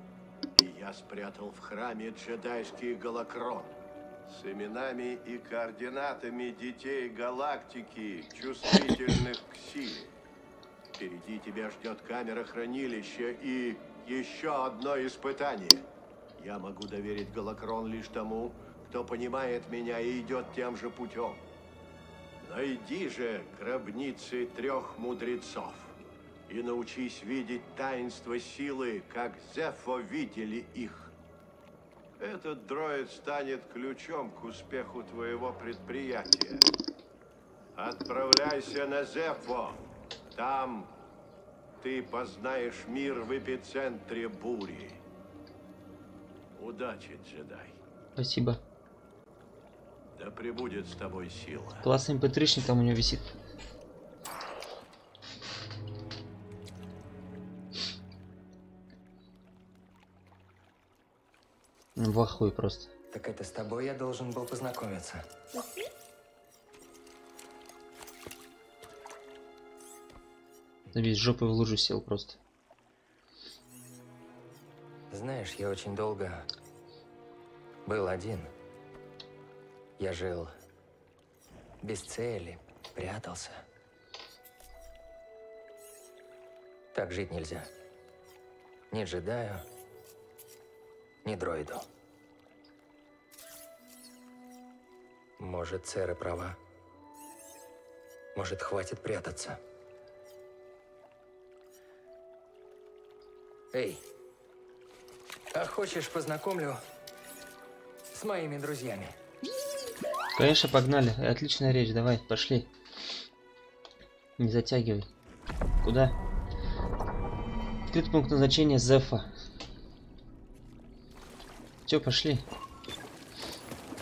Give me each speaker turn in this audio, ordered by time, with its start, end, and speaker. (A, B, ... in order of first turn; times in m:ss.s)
0:00.6-0:10.1 A
0:11.0-0:15.9 A
0:16.4-0:21.4 A
0:22.4-0:26.0 A
0:26.5-0:31.1 A
0:32.2-0:36.7 A
0:37.8-0:39.8 A
0:40.3-0:40.9 A
0:41.8-0:45.0 A
0:46.6-0:47.8 A
0:48.2-0:48.6 B
0:50.2-0:51.9 A
0:51.8-0:53.3 B
1:02.0-1:02.9 B
1:03.1-1:05.2 C
1:10.9-1:12.4 B
1:15.1-1:16.5 C
1:17.9-1:18.5 C
1:20.0-1:20.5 C
1:21.8-1:23.6 C
1:26.9-1:27.7 C
1:28.9-1:29.6 C
1:31.2-1:31.9 C
1:35.4-1:36.6 C
1:38.4-1:39.6 C
1:43.7-1:44.0 C
1:45.5-1:46.8 C
1:48.1-1:49.2 C
1:50.4-1:52.7 B
1:54.4-1:55.1 B
1:55.8-1:56.2 B
1:57.9-1:59.3 B
2:01.9-2:02.4 B